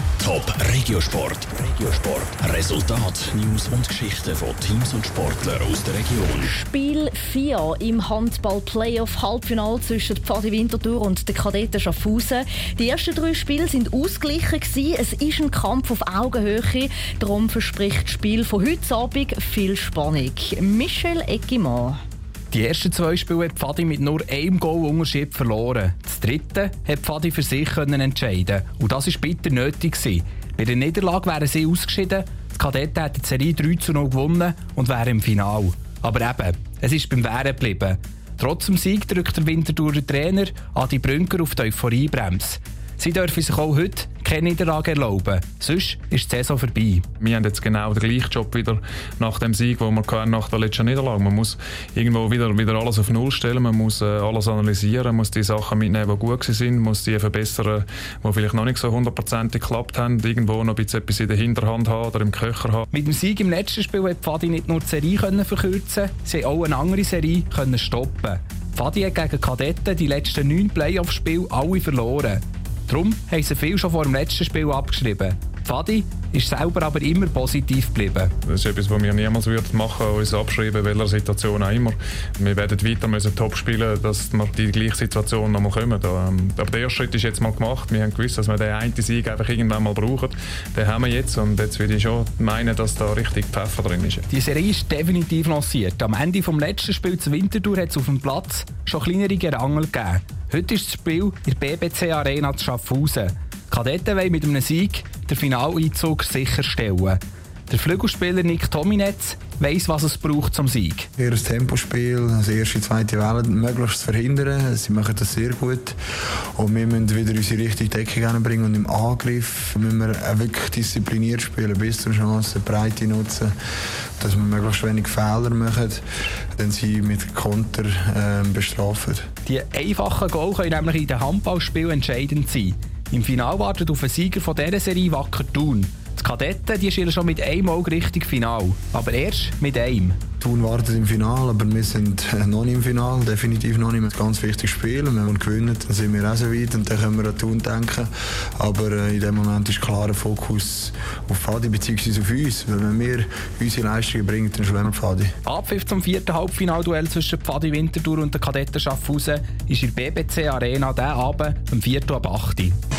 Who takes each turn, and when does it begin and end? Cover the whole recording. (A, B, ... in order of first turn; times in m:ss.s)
0:00.2-0:06.5 A
0:06.4-0:22.0 B
0:22.5-0:47.0 C
0:47.2-1:02.8 D
1:02.9-1:18.3 C
1:18.4-1:34.3 D
1:34.3-1:51.1 C
1:51.2-1:56.0 E
1:56.6-2:03.5 E
2:04.2-2:06.0 E
2:06.6-2:09.3 E
2:09.4-2:20.2 C
2:20.4-2:35.3 E
2:35.4-2:42.8 C